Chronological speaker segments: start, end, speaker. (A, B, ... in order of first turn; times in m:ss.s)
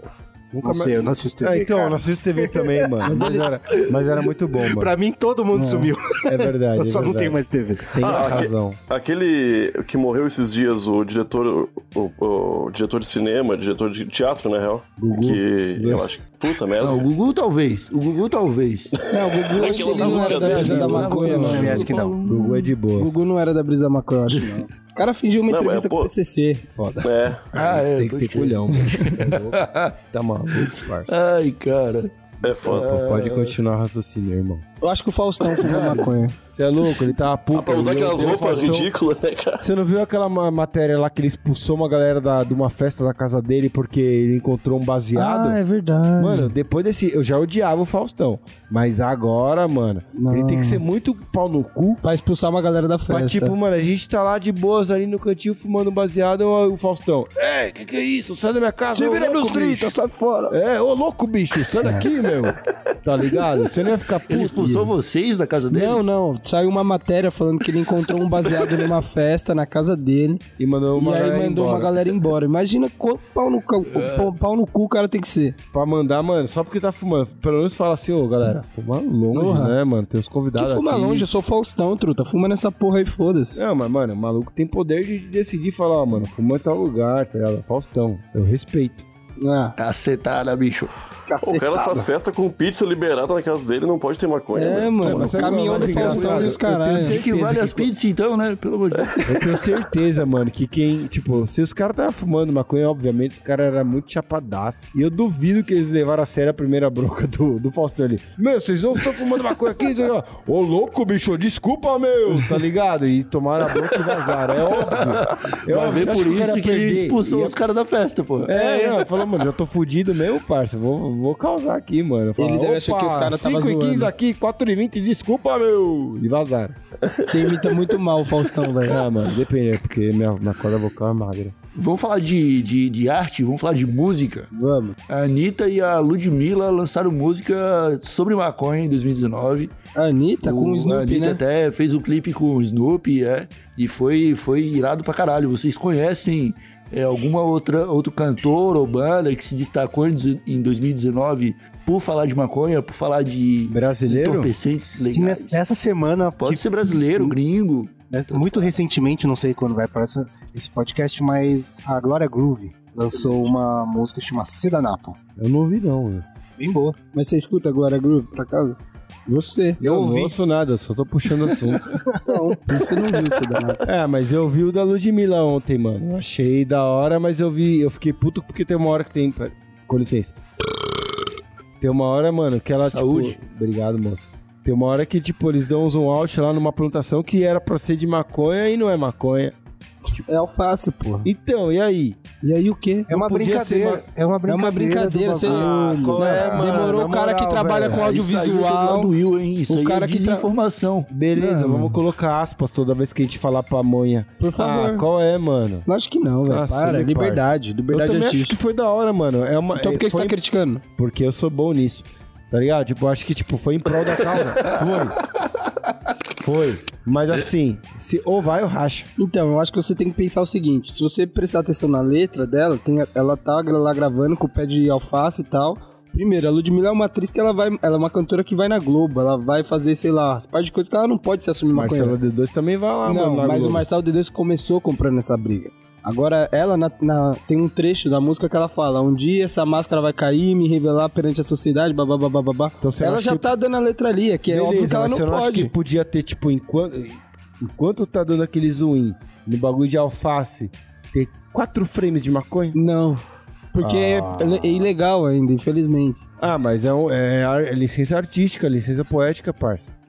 0:00.5-0:04.9 A
0:00.6-0:08.4 B
0:03.0-0:03.5 C
0:05.5-0:05.9 C
0:06.2-0:08.8 A
0:08.0-0:17.1 D
0:15.0-0:16.1 A
0:16.8-0:19.0 E
0:18.9-0:20.9 D
0:19.1-0:21.9 C
0:19.6-0:22.6 E
0:20.5-0:23.2 A
0:21.4-0:22.2 B
0:22.9-0:26.6 C
0:24.3-0:24.6 E
0:25.5-0:26.1 D
0:26.7-0:31.2 A
0:27.0-0:27.4 D
0:27.5-0:29.9 E
0:30.5-0:33.6 E
0:32.4-0:32.9 D
0:32.4-0:34.6 A
0:34.8-0:36.3 C
0:35.6-0:36.2 E
0:36.5-0:45.6 A
0:37.5-0:39.6 D
0:45.1-0:46.5 C
0:46.2-0:52.0 A
0:50.1-0:51.0 C
0:52.0-0:53.5 C
0:53.1-0:59.9 A
0:58.9-1:00.6 C
1:00.5-1:04.8 A
1:01.8-1:02.1 C
1:04.3-1:06.0 E
1:04.6-1:04.9 C
1:05.7-1:10.4 C
1:10.6-1:12.1 A
1:10.9-1:15.6 C
1:13.9-1:14.3 E
1:15.7-1:21.3 A
1:19.3-1:19.8 C
1:20.6-1:23.6 C
1:23.5-1:29.0 A
1:29.4-1:29.7 C
1:29.8-1:30.9 E
1:31.3-1:32.1 C
1:31.4-1:36.2 D
1:34.6-1:37.2 C
1:35.0-1:37.9 A
1:35.1-1:39.6 E
1:39.2-1:57.6 A
1:54.8-1:58.5 E
1:58.4-2:06.8 A
1:58.5-1:59.0 C
2:02.4-2:04.1 C
2:07.0-2:07.9 D
2:07.3-2:09.0 C
2:08.8-2:11.5 A
2:11.7-2:14.5 E
2:14.5-2:15.0 C
2:15.1-2:19.7 E
2:20.0-2:21.4 C
2:20.4-2:35.6 E
2:33.7-2:34.5 A
2:35.1-2:37.4 B
2:36.4-2:38.7 E
2:38.1-2:45.2 B
2:45.4-2:46.2 A
2:46.6-2:47.0 B
2:47.1-2:49.8 C
2:49.8-2:52.0 A
2:49.8-2:50.3 B
2:52.0-2:52.4 B
2:52.2-2:53.8 C
2:53.8-3:00.4 A
3:01.8-3:09.5 A
3:02.8-3:03.4 E
3:10.3-3:11.3 C
3:11.2-3:12.2 A
3:12.4-3:13.1 C
3:13.1-3:14.0 A
3:13.1-3:16.7 B
3:14.4-3:19.1 C
3:15.4-3:18.0 A
3:17.8-3:21.1 E
3:19.7-3:20.5 C
3:21.1-3:25.9 A
3:21.4-3:22.0 C
3:24.4-3:25.0 C
3:25.8-3:28.6 C
3:26.5-3:30.4 A
3:29.8-3:30.8 C
3:31.0-3:35.2 A
3:34.6-3:35.0 E
3:36.4-3:39.1 A
3:39.2-3:52.2 C
3:51.7-3:53.8 A
3:53.0-4:05.7 C
4:02.8-4:03.5 A
4:04.5-4:12.8 A
4:12.7-4:16.2 C
4:13.8-4:14.3 A
4:14.3-4:14.9 B
4:16.4-4:19.9 A